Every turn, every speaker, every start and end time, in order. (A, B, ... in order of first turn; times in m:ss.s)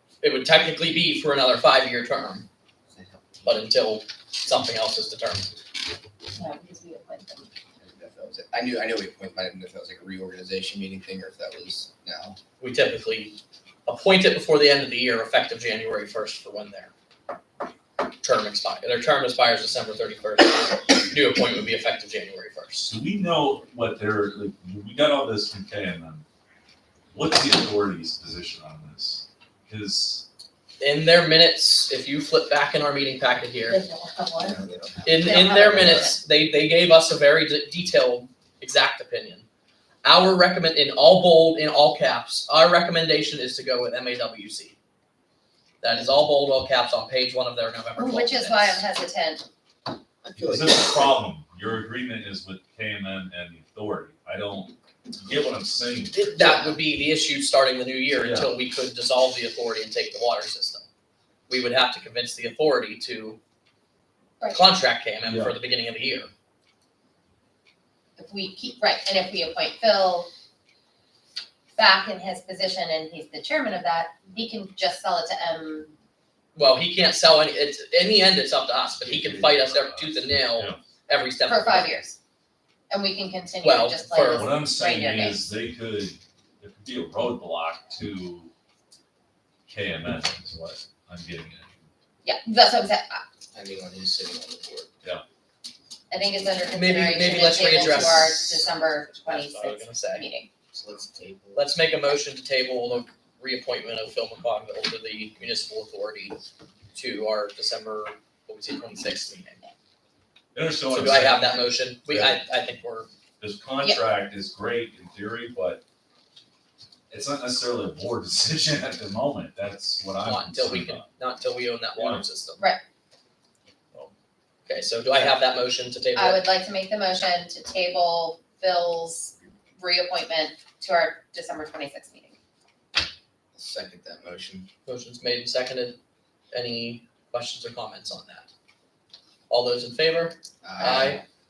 0:00.2-0:02.4 A
0:02.9-0:03.5 B
0:03.4-0:05.5 A
0:06.4-0:07.5 C
0:07.8-0:12.4 B
0:12.6-0:16.9 A
0:18.2-0:22.9 A
0:22.9-0:26.2 D
0:27.1-0:30.2 D
0:30.8-0:33.8 A
0:33.7-0:34.6 C
0:34.4-0:36.0 B
0:35.0-0:39.5 A
0:35.2-0:36.2 C
0:35.9-0:36.1 D
0:40.0-0:44.8 A
0:45.8-0:48.8 A
0:48.0-0:49.4 C
0:50.2-0:51.2 B
0:50.4-0:56.6 D
0:56.2-1:00.8 A
0:56.4-0:56.7 B
0:58.1-0:58.5 D
1:01.5-1:03.4 A
1:04.5-1:06.3 A
1:05.2-1:05.6 D
1:08.2-1:10.3 C
1:11.8-1:15.9 C
1:16.5-1:22.0 A
1:19.0-1:20.8 D
1:21.4-1:22.2 C
1:22.9-1:25.4 C
1:23.6-1:24.5 A
1:24.3-1:28.5 D
1:29.7-1:31.8 D
1:32.2-1:33.2 C
1:33.5-1:34.9 B
1:36.1-1:40.5 C
1:36.7-1:40.2 A
1:40.7-1:41.7 B
1:41.5-1:46.4 A
1:46.9-1:49.6 A
1:50.5-1:52.4 D
1:50.9-1:53.1 A
1:53.4-1:55.8 D
1:57.1-2:01.1 D
2:00.2-2:02.6 A
2:02.0-2:02.2 D
2:04.7-2:06.4 A
2:06.2-2:12.4 C
2:13.5-2:14.7 B
2:14.8-2:16.0 A
2:16.5-2:18.5 A
2:19.5-2:21.2 A
2:20.6-2:21.2 B